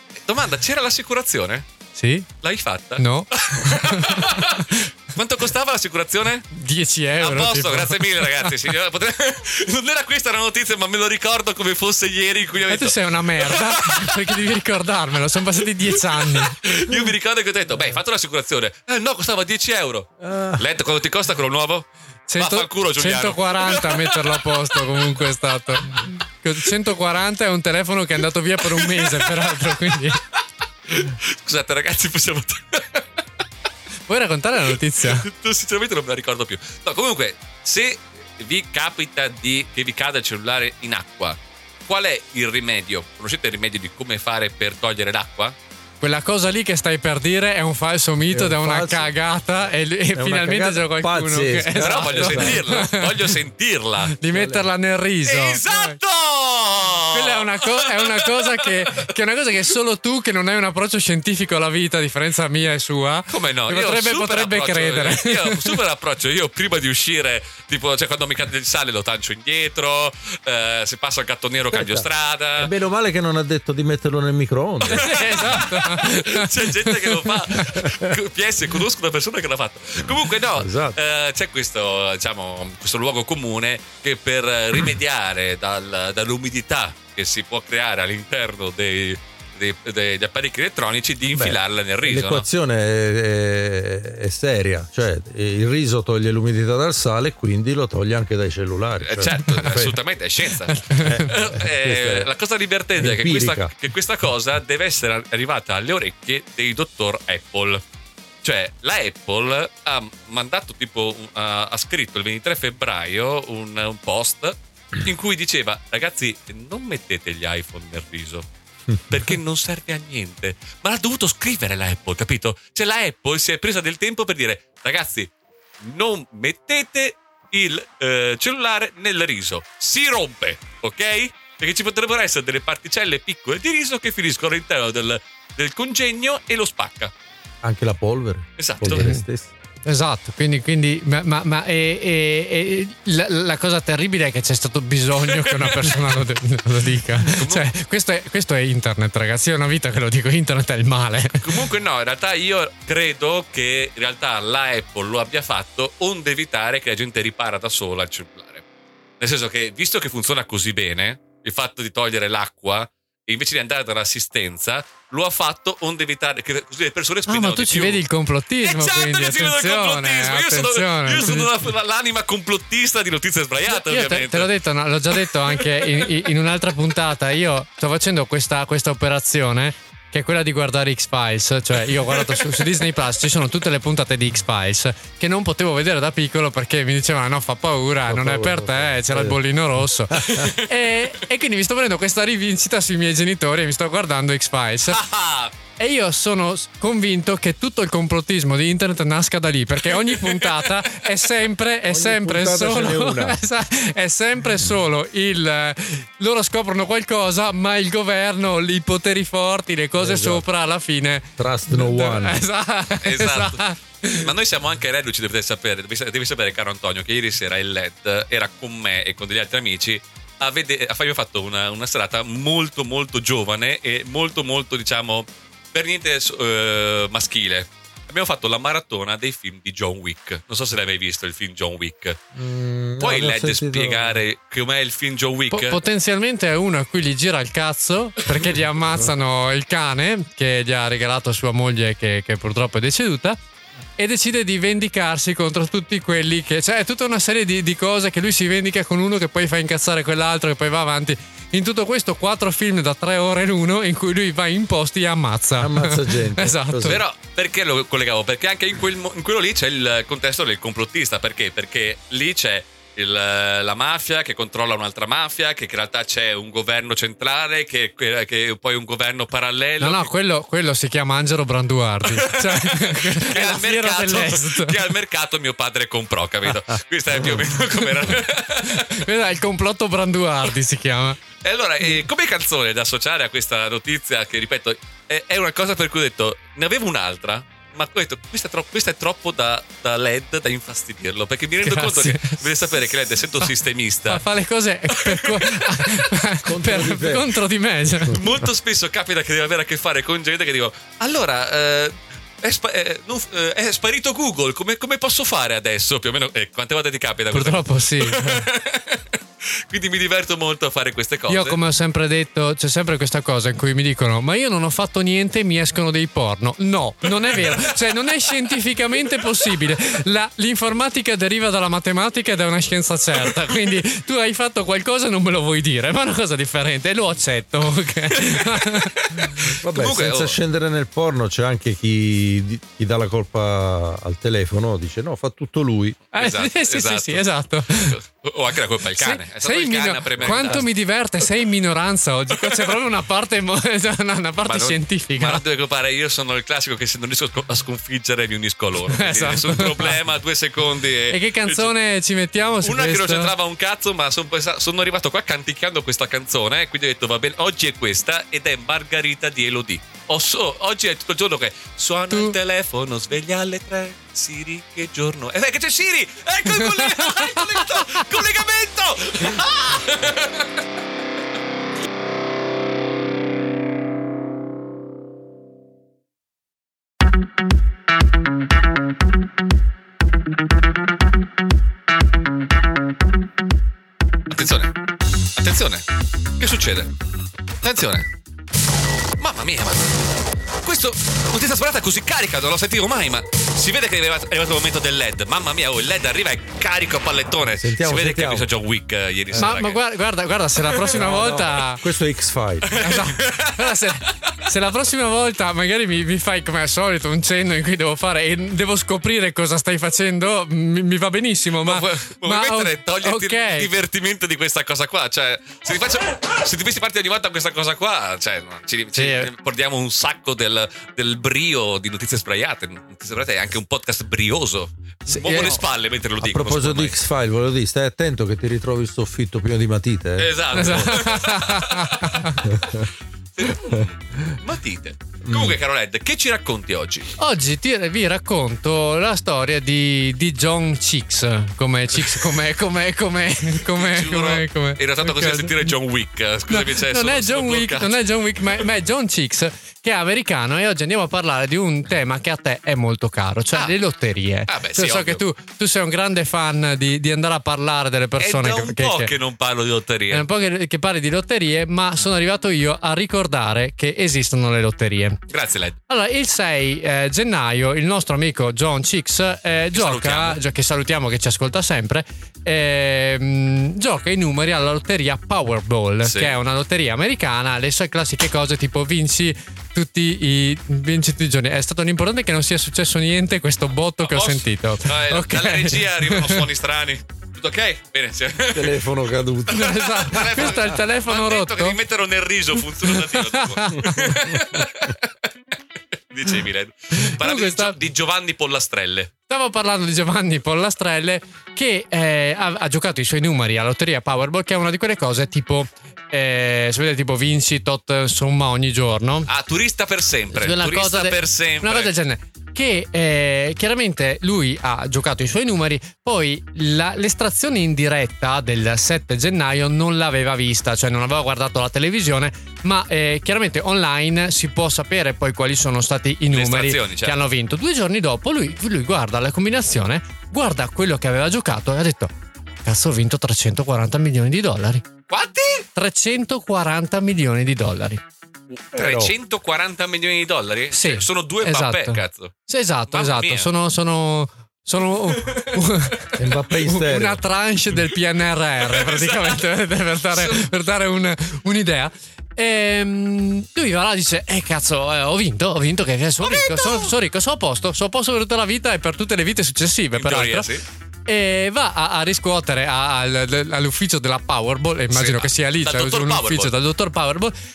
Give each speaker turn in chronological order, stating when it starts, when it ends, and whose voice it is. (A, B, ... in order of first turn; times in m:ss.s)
0:00.2-0:01.7 A
0:02.0-0:02.3 B
0:02.4-0:06.5 A
0:03.0-0:04.8 B
0:06.5-0:08.6 B
0:07.2-0:14.4 A
0:12.7-0:16.6 B
0:15.9-0:21.9 A
0:20.2-0:20.6 C
0:22.3-0:30.2 B
0:22.4-0:25.2 A
0:28.6-0:33.0 A
0:34.1-0:35.3 B
0:34.7-0:45.6 A
0:46.0-0:53.3 B
0:48.3-0:49.1 C
0:50.1-0:52.7 C
0:51.8-0:54.2 A
0:54.2-0:56.0 B
0:54.3-0:54.7 C
0:55.2-0:59.1 A
0:57.1-1:05.8 B
1:03.3-1:12.7 A
1:11.7-1:12.0 C
1:12.6-1:15.3 C
1:14.9-1:17.8 B
1:14.9-1:32.5 A
1:17.8-1:18.1 C
1:20.5-1:21.0 C
1:31.3-1:40.0 C
1:39.0-1:47.8 A
1:40.6-1:41.4 B
1:41.0-1:42.3 C
1:43.0-1:43.7 C
1:48.4-2:17.1 A
2:17.6-2:19.5 C
2:18.6-2:19.1 A
2:18.8-2:19.2 B
2:19.8-2:31.6 B
2:25.2-2:26.2 A
2:27.2-2:27.7 A
2:31.4-2:38.6 A
2:39.2-2:48.0 A
2:47.3-2:51.5 B
2:48.6-2:54.5 A
2:53.7-3:15.0 B
2:55.2-2:56.1 A
3:02.1-3:02.7 A
3:08.1-3:09.4 C
3:10.1-3:10.5 C
3:10.3-3:10.7 A
3:14.9-3:15.5 A
3:15.8-3:34.3 B
3:19.9-3:21.1 A
3:21.9-3:23.4 C
3:30.0-3:30.4 C
3:31.4-3:32.4 C
3:33.0-3:52.2 A
3:52.4-3:54.2 C
3:53.0-3:55.8 A
3:55.5-4:03.4 B
4:04.0-4:17.0 B
4:15.6-4:17.0 C
4:16.7-4:30.1 A
4:29.8-4:34.8 B
4:32.1-4:39.1 A
4:38.6-4:41.2 B
4:41.4-4:54.2 A
4:51.6-4:52.7 B
4:54.1-4:58.2 B
4:54.9-4:56.1 A
4:56.4-4:57.4 C
4:58.1-5:11.6 A
5:07.3-5:08.3 B
5:11.3-5:29.4 B
5:17.3-5:18.3 A
5:19.2-5:19.7 A
5:28.3-5:30.4 A
5:29.4-5:36.0 C
5:36.1-5:40.7 A
5:36.1-5:38.0 B
5:39.0-5:45.4 B
5:42.4-5:42.7 A
5:44.4-5:51.7 A
5:48.9-5:50.0 B
5:51.1-5:53.3 B
5:52.6-6:10.6 A
6:02.1-6:02.4 B
6:06.5-6:08.0 B
6:24.3-6:24.7 A
6:25.4-6:25.8 A
6:26.4-6:26.9 A
6:27.6-6:28.1 A
6:29.2-6:30.0 A
6:30.6-6:39.8 A
6:37.6-6:38.5 C
6:39.4-6:41.8 B
6:40.7-6:41.0 A
6:40.9-6:42.7 C
6:42.6-6:44.3 A
6:42.8-6:53.7 B
6:51.6-7:07.0 A
6:58.9-6:59.3 B
7:05.1-7:05.6 B
7:06.2-7:11.0 C
7:10.2-7:17.2 A
7:10.5-7:12.5 B
7:12.4-7:12.8 C
7:15.2-7:15.6 C
7:17.2-7:25.7 B
7:23.6-7:28.0 A
7:26.5-7:39.1 B
7:34.5-7:35.2 A
7:38.2-7:40.2 A
7:40.1-7:45.2 B
7:45.3-7:45.8 A
7:45.9-8:06.5 B
7:49.7-7:50.4 A
7:56.0-7:56.3 A
8:04.0-8:08.9 A
8:08.5-8:10.2 C
8:09.5-8:15.3 A
8:09.5-8:11.8 B
8:12.8-8:14.5 B
8:14.1-8:14.6 C
8:16.1-8:19.1 A
8:17.0-8:17.8 B
8:19.3-8:29.3 B
8:29.3-8:31.9 A
8:30.3-8:52.1 B
8:46.3-8:47.2 A
8:52.6-8:54.8 B
8:55.1-8:55.7 A
8:55.8-8:58.0 B
8:58.5-9:02.3 A
8:58.7-8:59.1 C
9:00.7-9:20.5 B
9:02.9-9:03.5 A
9:06.2-9:07.2 C
9:08.6-9:09.4 A
9:10.1-9:10.5 A
9:16.2-9:16.9 A
9:19.9-9:20.6 A
9:21.1-9:27.3 B
9:24.9-9:26.5 A